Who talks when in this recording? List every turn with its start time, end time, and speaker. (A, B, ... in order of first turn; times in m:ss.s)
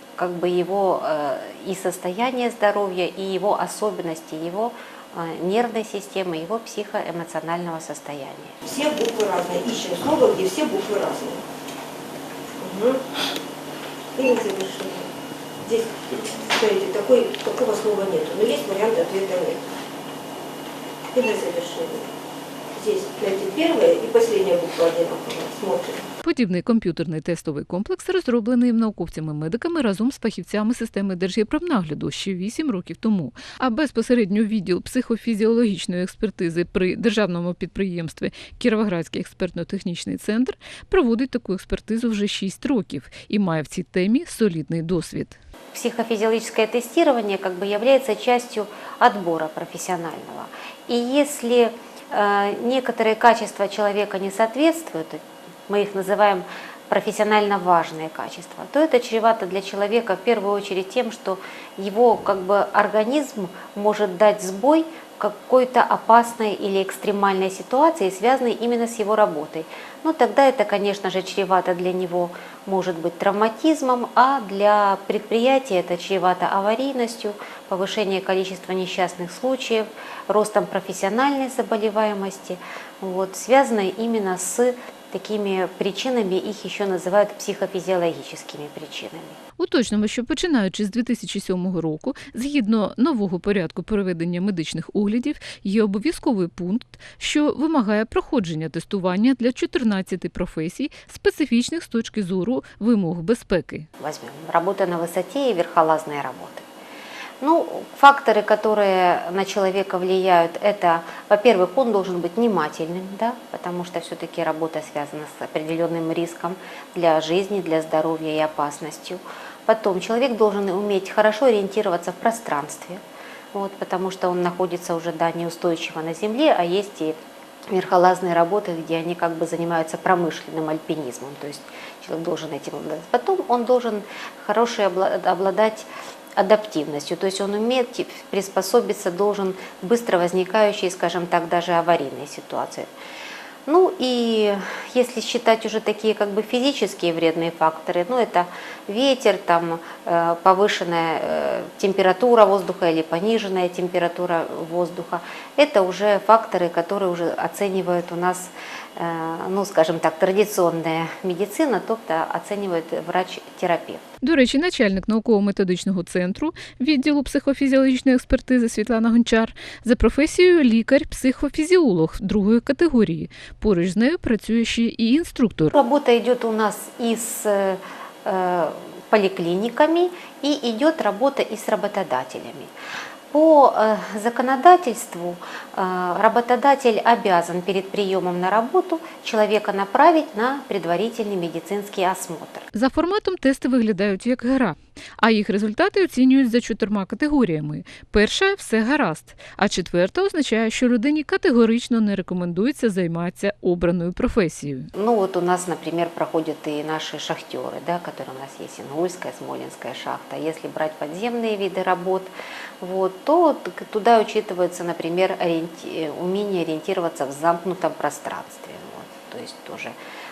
0:00.2-0:08.6 A
0:08.6-0:11.4 B
0:12.6-0:13.0 B
0:14.1-0:15.1 B
0:15.6-0:19.7 B
0:21.1-0:22.1 B
0:22.7-0:26.1 B
0:26.2-0:45.4 C
0:45.7-1:29.4 A
1:29.6-1:43.9 C
1:44.0-1:46.6 A
1:47.4-2:03.0 A
2:03.5-2:07.2 A
2:07.7-2:22.9 A
2:23.6-2:44.0 A
2:44.2-2:55.7 C
2:55.7-3:02.7 A
3:03.3-3:12.7 A
3:12.7-3:24.9 C
3:24.9-3:39.9 A